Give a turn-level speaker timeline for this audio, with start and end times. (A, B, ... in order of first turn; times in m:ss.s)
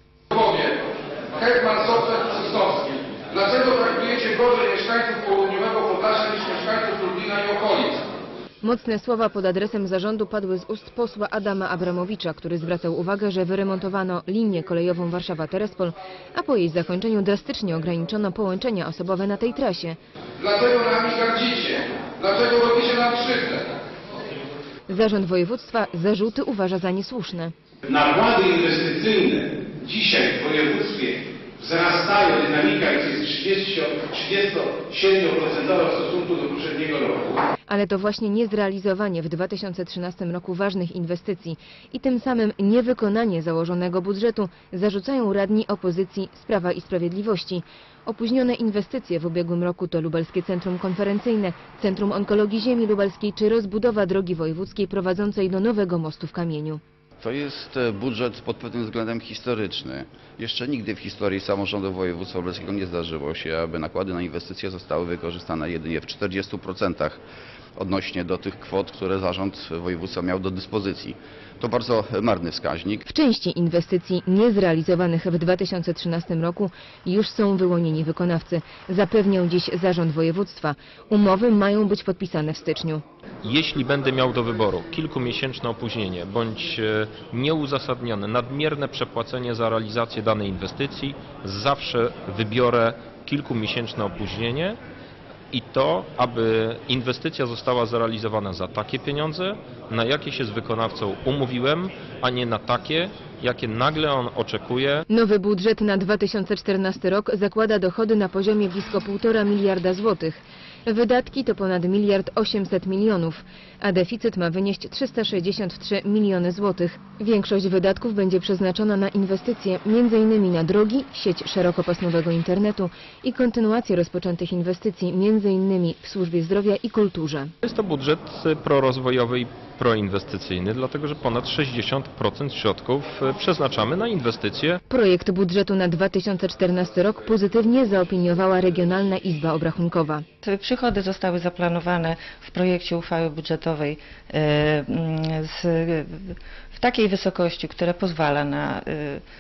0:00.3-0:00.8 A
0:01.4-0:08.0 A
0:08.6-0:20.0 B
0:20.4-0:23.7 A
0:24.9-0:27.5 B
0:27.8-0:37.4 C
0:37.7-0:56.8 B
0:57.2-1:07.2 D
1:07.8-1:13.0 D
1:13.1-1:23.0 B
1:23.4-1:34.8 E
1:35.5-1:45.0 E
1:45.1-2:07.5 B
2:07.6-2:14.8 E
2:14.9-2:20.2 B
2:20.5-2:25.9 F
2:26.8-2:29.2 F